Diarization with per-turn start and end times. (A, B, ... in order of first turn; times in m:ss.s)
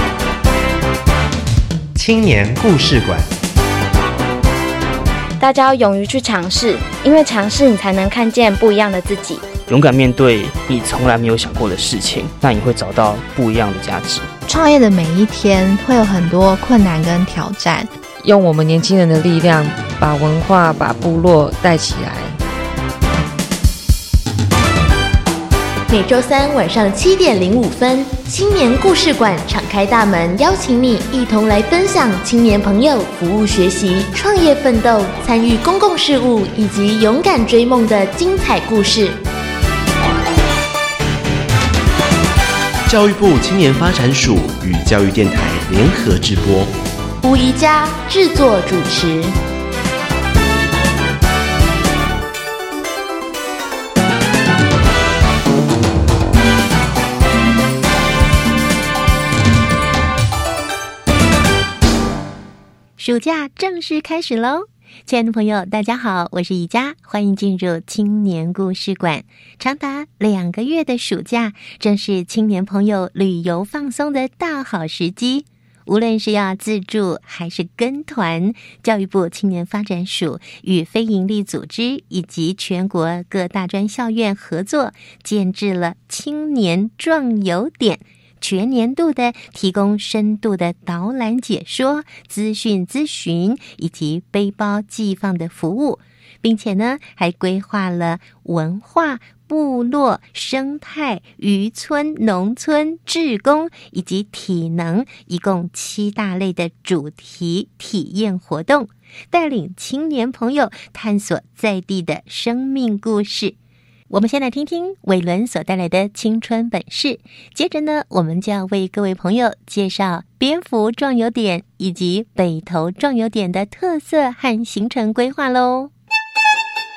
0:01.9-0:03.3 A
0:05.4-0:09.4 B
0:09.7-0:14.3 C
0:14.5-0:17.9 D
0:18.2-0:22.4 E
0:25.9-0:39.2 F
0:42.8-0:46.7 A
0:47.2-0:49.3 F
1:03.0-1:53.5 G
1:54.1-2:05.9 G